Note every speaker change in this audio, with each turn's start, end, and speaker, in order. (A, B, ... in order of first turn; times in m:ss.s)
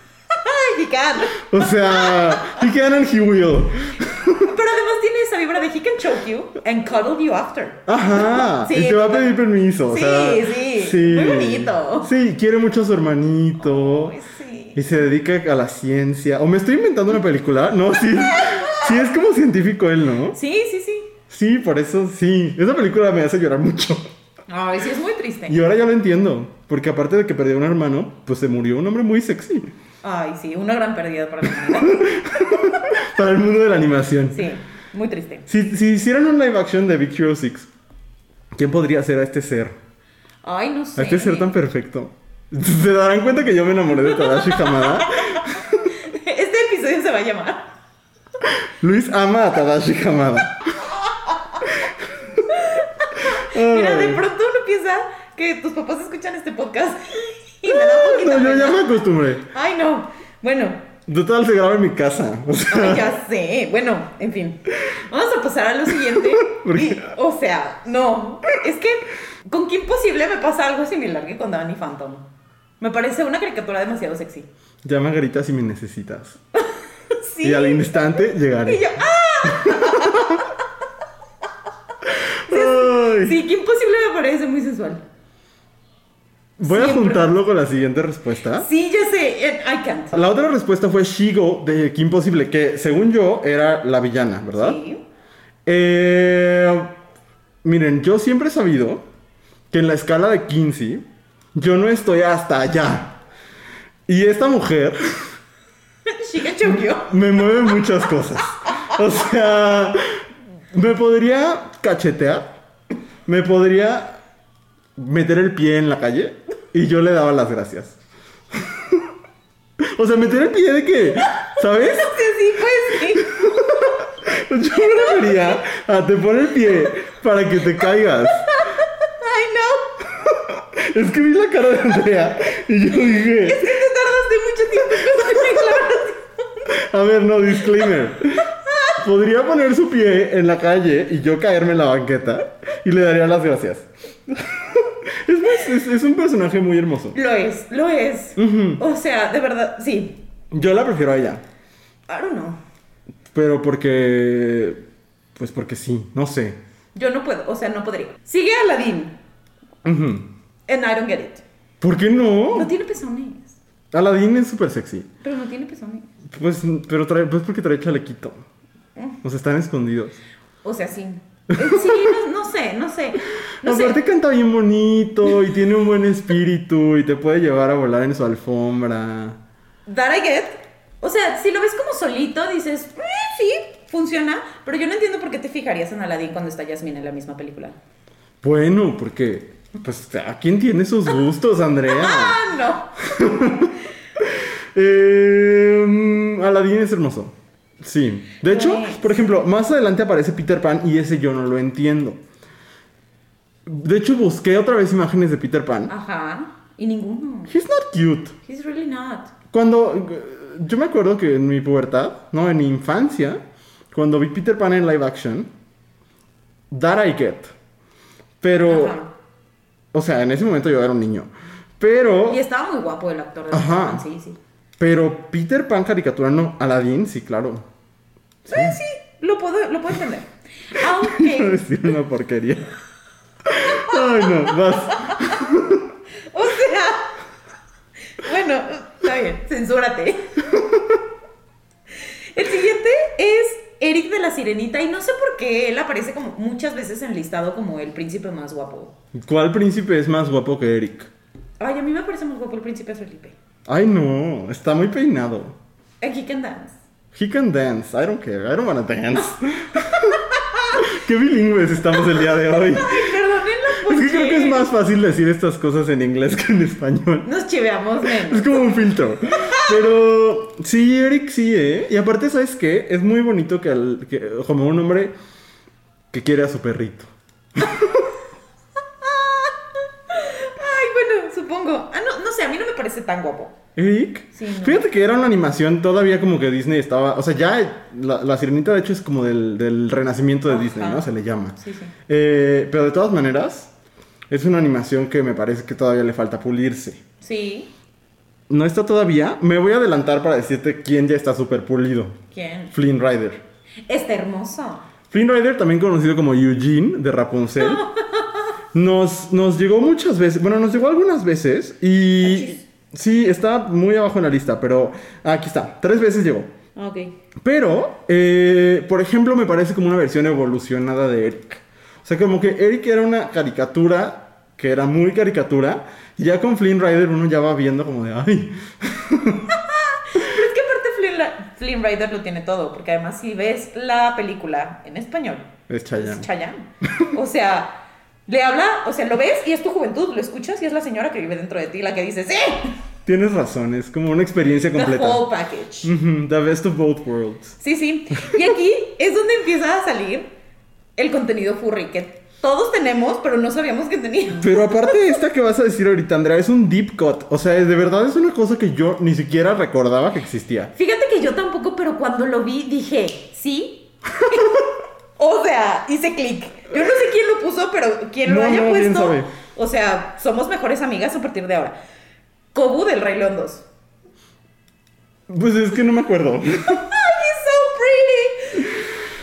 0:00.3-0:02.6 A
0:01.4-0:04.5 B
0:04.3-0:12.1 A
0:07.9-0:14.2 B
0:13.6-0:14.8 A
0:14.8-0:20.4 B
0:18.2-0:19.0 A
0:20.3-0:21.1 A
0:21.3-0:24.1 B
0:24.5-0:25.6 A
0:25.5-0:29.7 B
0:30.0-0:32.6 A
0:31.5-0:34.5 B
0:34.3-0:35.5 A
0:35.5-0:37.7 B
0:38.6-0:39.8 B
0:40.4-0:41.5 A
0:41.0-0:46.0 B
0:44.0-0:47.7 A
0:48.4-0:50.8 B
0:51.1-0:51.7 A
0:51.7-0:52.5 B
0:52.5-0:58.9 A
0:53.3-0:54.2 B
0:57.7-0:59.5 B
0:59.5-1:00.9 A
1:01.1-1:03.2 B
1:02.7-1:12.3 A
1:05.9-1:07.1 B
1:12.8-1:14.5 A
1:14.8-1:16.4 B
1:17.1-1:20.5 A
1:17.4-1:18.9 B
1:19.4-1:20.5 B
1:22.1-1:23.4 B
1:22.5-1:25.0 A
1:26.6-1:28.7 B
1:26.6-1:27.3 A
1:28.6-1:30.2 A
1:30.1-1:34.8 B
1:34.6-1:35.0 A
1:35.7-1:37.0 B
1:37.6-1:39.0 B
1:39.7-1:41.0 B
1:41.6-1:43.2 B
1:44.1-1:45.4 B
1:46.1-1:47.8 A
1:46.6-1:52.5 B
1:48.7-1:49.0 A
1:53.3-1:54.2 B
1:55.0-1:58.0 B
1:58.5-1:59.1 B
1:59.8-2:02.2 B
2:01.6-2:03.7 A
2:03.0-2:08.5 B
2:04.7-2:05.6 A
2:08.5-2:10.1 A
2:10.2-2:13.8 B
2:13.2-2:16.6 A
2:15.0-2:15.6 B
2:16.7-2:27.2 B
2:18.6-2:19.0 A
2:27.1-2:30.2 A
2:28.4-2:28.8 B
2:30.5-2:31.4 B
2:32.1-2:32.6 A
2:33.3-2:34.8 B
2:35.4-2:36.6 B
2:37.0-2:39.2 A
2:39.8-2:40.3 B
2:40.7-2:41.4 A
2:41.8-2:42.7 B
2:42.5-2:43.6 A
2:43.9-2:45.1 B
2:45.2-2:46.1 A
2:46.3-2:48.4 B
2:49.2-2:50.2 B
2:50.6-2:54.0 A
2:51.5-2:52.2 B
2:53.6-2:59.4 B
2:59.9-3:07.8 A
3:08.4-3:12.4 B
3:11.9-3:13.0 A
3:13.0-3:22.2 B
3:18.4-3:19.3 A
3:23.7-3:25.9 B
3:25.9-3:27.5 A
3:27.5-3:28.4 B
3:28.4-3:29.3 A
3:29.5-3:33.4 B
3:33.9-3:35.5 B
3:36.7-3:37.5 B
3:38.4-3:39.0 B
3:38.7-3:39.1 A
3:39.9-3:42.4 B
3:42.3-3:44.4 A
3:43.5-3:44.0 B
3:44.8-3:47.7 B
3:48.5-3:48.8 B
3:48.5-3:51.6 A
3:50.8-3:52.8 B
3:53.4-3:55.9 B
3:53.6-3:55.5 A
3:56.3-3:57.2 A
3:58.2-4:00.4 A
4:00.5-4:01.0 B
4:02.0-4:08.9 A
4:09.1-4:11.1 B
4:11.6-4:13.4 A
4:13.7-4:15.6 B
4:16.0-4:16.8 A
4:17.1-4:27.3 B
4:20.5-4:20.8 A
4:22.2-4:24.7 A
4:27.2-4:28.7 A
4:28.0-4:35.1 B
4:29.4-4:29.8 A
4:36.1-4:38.1 B
4:39.0-4:39.6 A
4:40.1-4:43.6 A
4:43.8-4:53.7 B
4:44.3-4:44.8 A
4:50.5-4:51.9 A
4:54.3-4:57.0 B
4:57.2-4:57.7 A
4:58.5-5:02.2 B
5:02.3-5:02.7 A
5:02.7-5:03.4 B
5:03.9-5:04.9 A
5:05.1-5:07.9 B
5:07.6-5:08.5 A
5:08.7-5:16.5 B
5:12.2-5:12.6 A
5:16.8-5:17.1 A
5:17.4-5:29.5 B
5:29.5-5:42.8 A
5:35.7-5:36.3 B
5:36.8-5:37.1 B
5:43.1-5:45.3 B
5:44.7-5:45.9 A
5:45.8-5:47.6 B
5:47.6-5:50.3 A
5:51.0-5:55.1 A
5:54.3-6:00.7 B
6:00.8-6:11.8 A
6:08.2-6:09.3 B
6:12.5-6:13.7 A
6:15.3-6:16.9 B
6:16.7-6:18.8 A